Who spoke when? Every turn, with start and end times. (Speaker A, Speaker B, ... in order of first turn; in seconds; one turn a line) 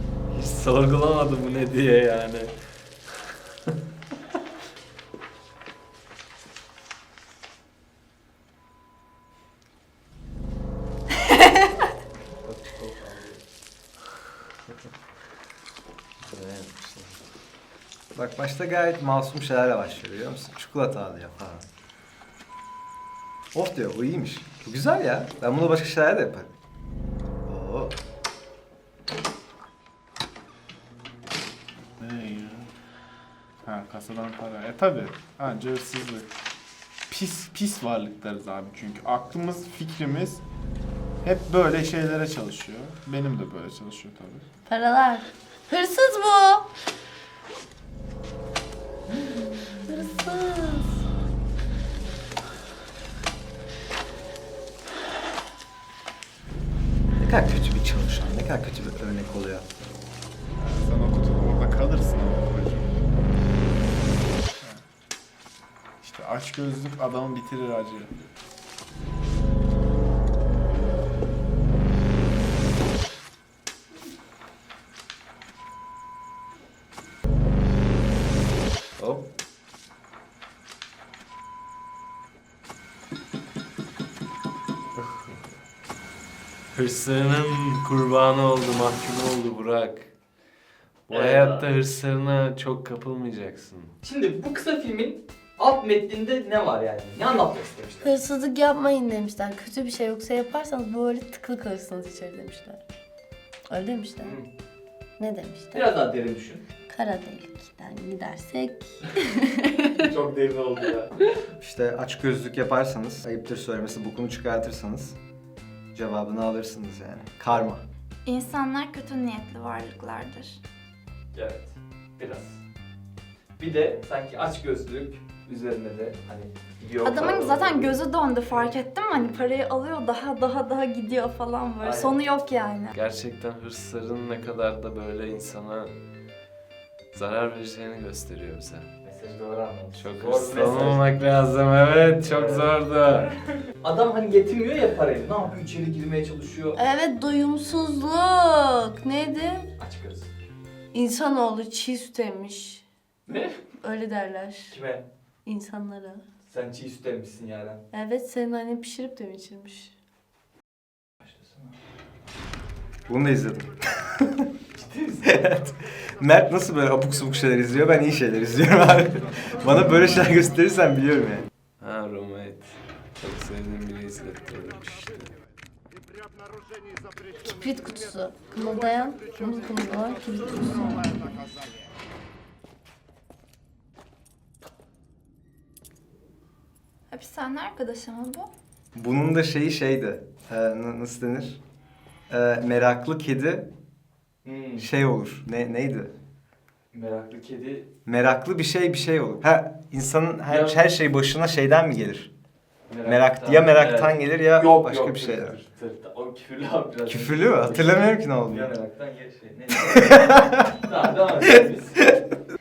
Speaker A: 0.3-2.5
Speaker B: 12.2-13.4
Speaker A: 16.2-17.1
Speaker C: 18.1-21.7
Speaker C: 23.5-26.5
Speaker C: 27.5-27.9
Speaker D: 32.0-32.7
Speaker D: 33.6-36.3
Speaker D: 37.1-40.4
Speaker D: 41.2-44.5
Speaker E: 44.7-46.7
Speaker E: 49.8-51.0
Speaker C: 57.2-59.7
Speaker D: 60.6-63.0
Speaker D: 66.0-68.1
Speaker A: 79.0-79.3
Speaker A: 86.7-90.1
Speaker A: 91.1-94.0
Speaker B: 91.1-91.7
Speaker B: 94.0-98.1
Speaker E: 98.0-102.8
Speaker E: 103.7-104.4
Speaker B: 104.2-104.5
Speaker E: 105.2-105.9
Speaker B: 105.7-106.6
Speaker E: 106.9-110.0
Speaker B: 110.0-111.4
Speaker C: 111.6-115.2
Speaker C: 115.9-117.8
Speaker F: 118.2-120.6
Speaker B: 121.3-122.6
Speaker B: 123.6-128.8
Speaker F: 127.0-132.9
Speaker B: 131.8-132.2
Speaker A: 132.9-136.0
Speaker A: 137.1-138.9
Speaker B: 139.0-141.2
Speaker A: 139.9-143.3
Speaker B: 142.2-142.9
Speaker B: 143.8-146.8
Speaker E: 146.8-149.7
Speaker B: 149.8-150.3
Speaker E: 150.9-152.8
Speaker B: 153.3-153.6
Speaker E: 153.8-154.8
Speaker B: 154.7-155.1
Speaker E: 155.4-156.2
Speaker B: 156.4-157.8
Speaker E: 157.9-159.9
Speaker B: 161.2-161.8
Speaker C: 163.1-164.3
Speaker B: 164.7-165.7
Speaker C: 166.2-171.5
Speaker A: 171.8-175.3
Speaker E: 177.4-181.2
Speaker F: 187.1-188.5
Speaker C: 188.9-191.6
Speaker C: 192.3-193.7
Speaker B: 194.4-194.9
Speaker C: 194.8-196.1
Speaker B: 196.9-197.9
Speaker C: 198.1-202.3
Speaker B: 200.5-200.8
Speaker B: 202.9-212.1
Speaker C: 203.1-205.6
Speaker C: 207.1-208.7
Speaker C: 209.9-210.3